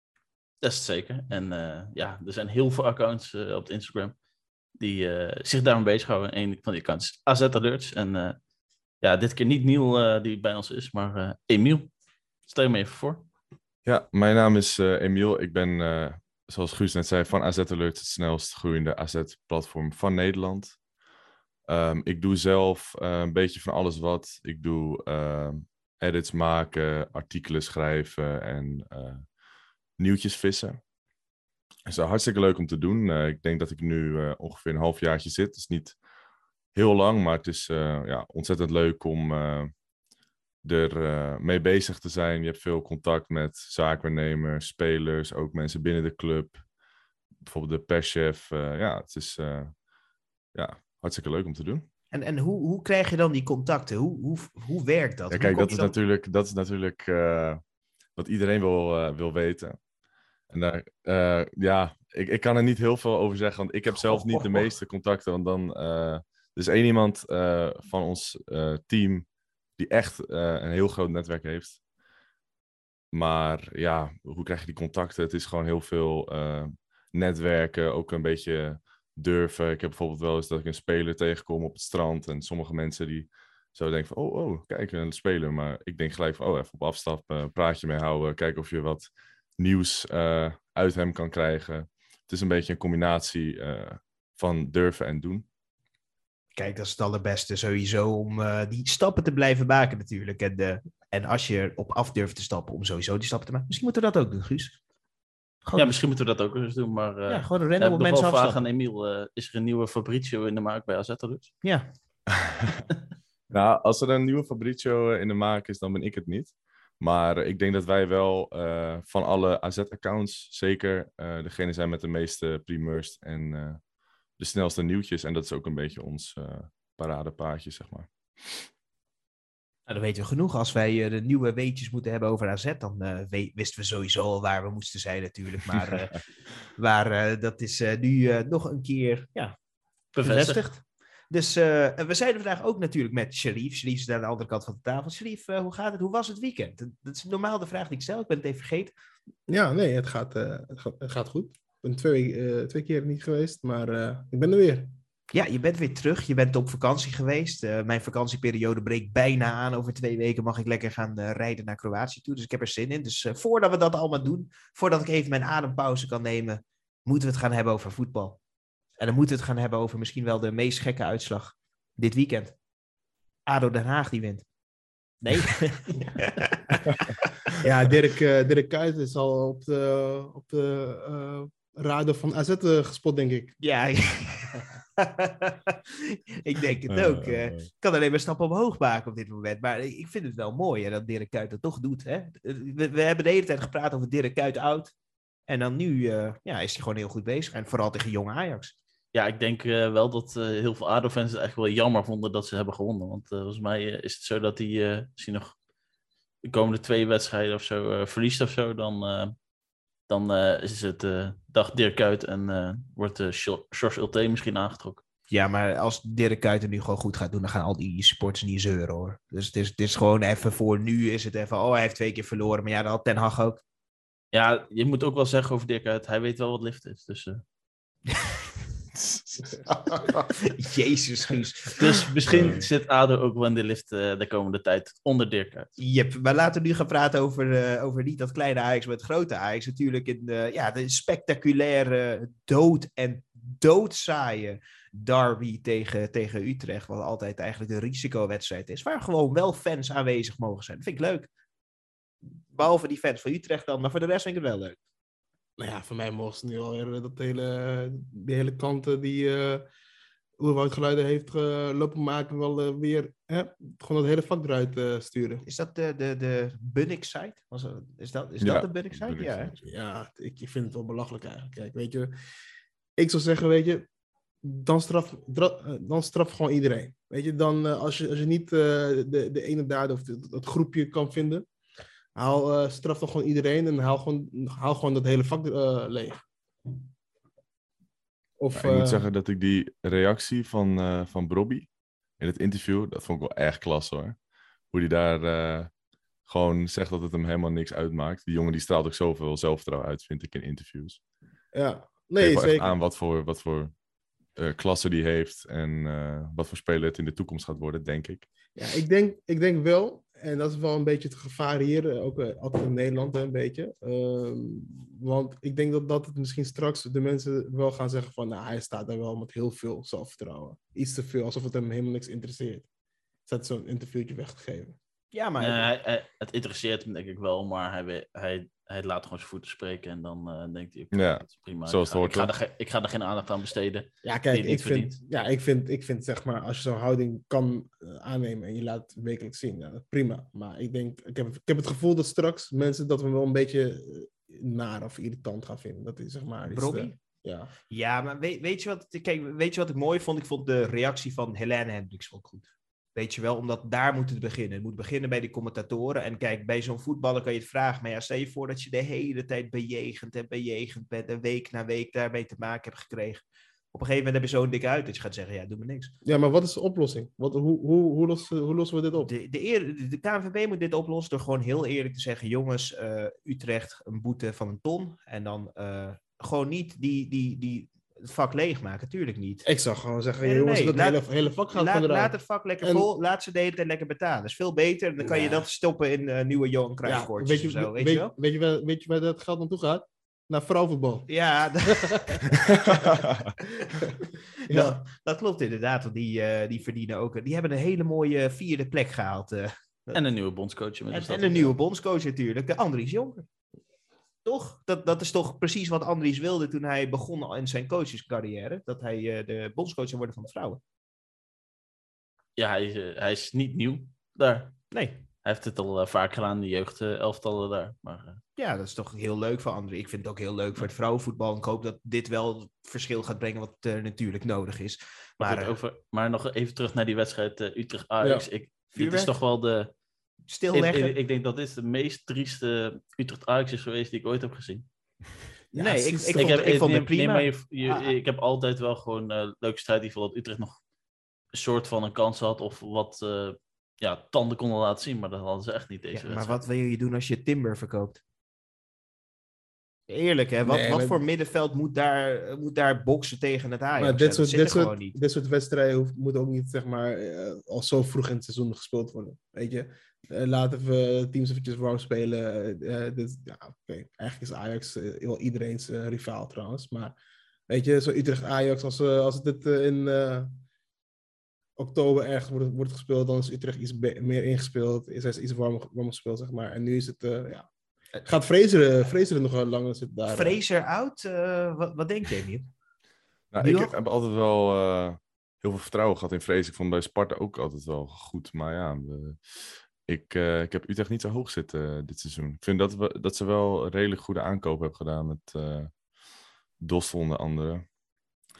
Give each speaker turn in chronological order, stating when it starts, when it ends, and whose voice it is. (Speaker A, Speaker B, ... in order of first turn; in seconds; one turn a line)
Speaker A: 0.6-4.2
Speaker A: 4.8-8.4
Speaker A: 9.0-11.9
Speaker A: 12.4-13.2
Speaker B: 13.8-20.8
Speaker B: 21.7-29.2
Speaker B: 30.0-30.8
Speaker B: 31.9-36.0
Speaker B: 36.7-39.7
Speaker B: 40.6-46.6
Speaker B: 47.4-49.8
Speaker B: 50.5-51.8
Speaker C: 52.1-55.9
Speaker B: 55.3-57.6
Speaker B: 58.1-59.8
Speaker B: 60.5-69.2
Speaker C: 64.0-64.7
Speaker B: 69.8-71.8
Speaker B: 73.1-95.5
Speaker C: 96.5-104.8
Speaker C: 105.6-106.0
Speaker A: 105.7-111.5
Speaker C: 107.3-108.7
Speaker C: 111.6-111.9
Speaker B: 112.4-112.7
Speaker B: 113.5-123.8
Speaker B: 124.4-128.7
Speaker C: 129.9-136.2
Speaker C: 136.7-139.6
Speaker A: 140.1-140.6
Speaker C: 140.2-148.9
Speaker D: 149.5-155.0
Speaker C: 155.3-168.4
Speaker C: 169.0-172.6
Speaker C: 173.5-174.4
Speaker C: 175.2-177.5
Speaker D: 177.6-183.6
Speaker C: 183.6-194.9
Speaker B: 186.9-187.7
Speaker C: 195.5-198.7
Speaker A: 199.1-205.5
Speaker A: 206.4-209.3
Speaker A: 210.1-215.0
Speaker C: 215.3-223.6
Speaker A: 224.3-227.4
Speaker C: 228.1-228.4
Speaker B: 229.0-229.6
Speaker C: 229.5-232.5
Speaker A: 231.8-235.7
Speaker B: 232.3-232.7
Speaker C: 235.8-251.3
Speaker C: 252.5-254.8
Speaker D: 255.6-259.7
Speaker D: 260.4-265.4
Speaker C: 265.4-269.5
Speaker B: 268.4-269.6
Speaker D: 269.6-272.1
Speaker D: 273.0-273.8
Speaker D: 274.4-281.4
Speaker D: 282.1-286.2
Speaker D: 288.4-289.1
Speaker B: 288.5-291.7
Speaker B: 292.2-294.2
Speaker B: 294.7-295.7
Speaker B: 296.2-301.0
Speaker D: 301.5-302.7
Speaker B: 302.2-303.7
Speaker B: 304.4-308.3
Speaker D: 308.6-322.7
Speaker D: 323.3-324.8
Speaker C: 325.1-325.7
Speaker A: 325.4-335.0
Speaker B: 330.9-332.3
Speaker D: 334.0-347.5
Speaker C: 346.5-346.9
Speaker C: 347.7-365.9
Speaker D: 366.0-369.1
Speaker C: 369.0-379.4
Speaker D: 379.4-382.9
Speaker C: 380.2-381.0
Speaker C: 381.5-388.1
Speaker D: 385.0-385.4
Speaker D: 386.8-391.1
Speaker C: 391.1-392.4
Speaker D: 391.6-392.8
Speaker B: 392.9-393.3
Speaker D: 394.5-394.8
Speaker C: 394.5-400.0
Speaker A: 399.9-401.5
Speaker C: 400.9-403.2
Speaker C: 404.2-410.6
Speaker A: 412.4-414.6
Speaker C: 414.7-415.0
Speaker A: 415.2-418.2
Speaker C: 418.4-425.6
Speaker A: 425.2-429.7
Speaker D: 428.0-428.3
Speaker C: 428.7-429.2
Speaker C: 430.3-430.9
Speaker A: 430.5-434.7
Speaker D: 435.5-436.4
Speaker C: 435.5-437.9
Speaker A: 436.1-440.6
Speaker A: 441.3-446.4
Speaker C: 445.9-448.0
Speaker C: 449.9-454.9
Speaker D: 450.4-451.0
Speaker D: 453.8-467.0
Speaker D: 467.5-470.4
Speaker D: 471.6-477.5
Speaker D: 478.0-480.4
Speaker C: 480.1-482.5
Speaker B: 483.3-495.7
Speaker C: 483.4-483.7
Speaker B: 496.6-497.6